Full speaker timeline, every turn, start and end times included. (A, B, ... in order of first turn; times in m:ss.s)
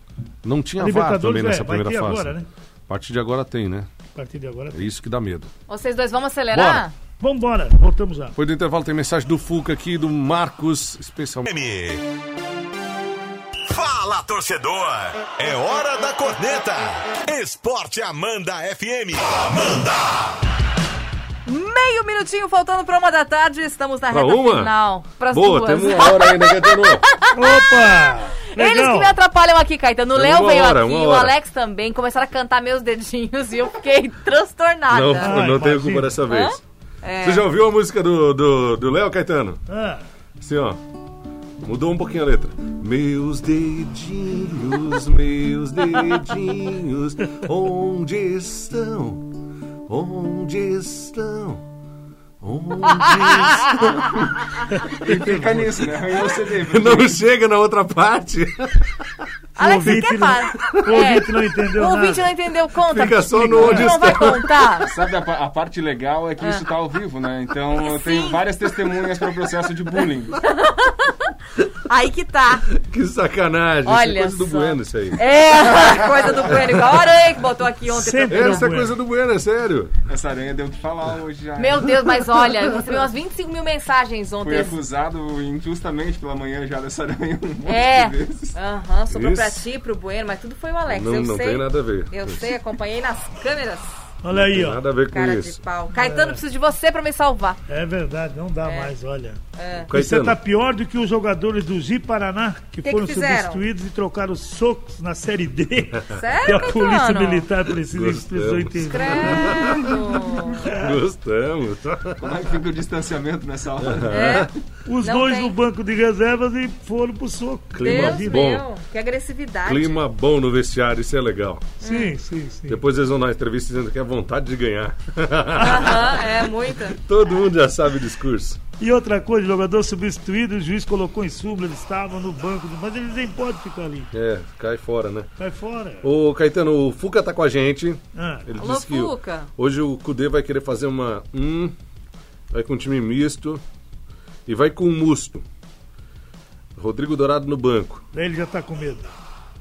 0:00.4-0:03.9 A
0:00.8-0:02.5 B
0:04.1-0:04.9 B
0:04.7-0:05.5 A
0:05.7-0:06.9 C
0:06.5-0:06.9 A
0:07.2-0:08.4 B
0:08.3-0:11.5 A
0:11.5-0:12.0 D
0:13.7-0:20.2 D
0:21.4-0:35.4 C
0:24.1-0:27.0 A
0:27.3-0:29.2 B
0:30.1-0:31.3 A
0:34.9-0:36.6 A
0:35.2-0:36.2 B
0:36.3-0:37.4 C
0:37.2-0:39.6 A
0:39.7-0:40.0 B
0:40.4-0:40.8 A
0:41.6-0:51.6 A
0:52.4-0:54.2 A
0:53.0-0:53.6 B
0:53.7-0:54.1 C
0:54.7-0:55.8 B
0:54.9-0:57.2 E
0:56.6-0:59.2 A
0:59.6-1:04.9 C
0:59.6-1:02.3 B
1:00.6-1:00.9 A
1:02.9-1:04.8 A
1:03.5-1:03.9 E
1:04.8-1:10.4 E
1:07.8-1:08.4 C
1:10.4-1:11.3 C
1:11.9-1:12.6 C
1:12.7-1:15.2 A
1:13.8-1:18.7 C
1:16.5-1:16.8 A
1:17.9-1:18.9 B
1:18.3-1:20.0 A
1:20.1-1:22.0 E
1:21.6-1:24.8 C
1:24.4-1:28.6 E
1:27.6-1:33.9 C
1:29.1-1:29.6 A
1:30.9-1:32.5 A
1:34.2-1:34.8 B
1:34.3-1:35.6 A
1:35.0-1:37.6 C
1:35.9-1:36.4 B
1:37.7-1:39.4 B
1:38.6-1:38.9 C
1:39.5-1:39.9 C
1:39.8-1:40.4 A
1:39.9-1:49.7 B
1:42.8-1:43.6 C
1:46.1-1:47.4 C
1:47.8-1:49.9 A
1:48.8-1:50.7 C
1:50.6-1:51.0 B
1:50.6-1:52.5 A
1:52.2-1:54.3 E
1:53.8-1:54.5 A
1:54.1-1:54.5 C
1:54.8-1:58.5 B
1:55.0-1:55.5 C
1:57.7-1:58.6 A
1:57.7-2:00.0 C
1:59.6-2:01.7 A
2:01.8-2:02.8 B
2:01.8-2:02.1 C
2:02.6-2:08.6 A
2:05.5-2:07.0 C
2:08.8-2:14.1 B
2:14.1-2:15.3 A
2:15.4-2:16.1 B
2:16.0-2:21.7 A
2:18.1-2:18.5 B
2:18.6-2:19.5 C
2:22.5-2:23.6 A
2:24.4-2:25.4 A
2:26.8-2:28.0 A
2:28.1-2:29.1 B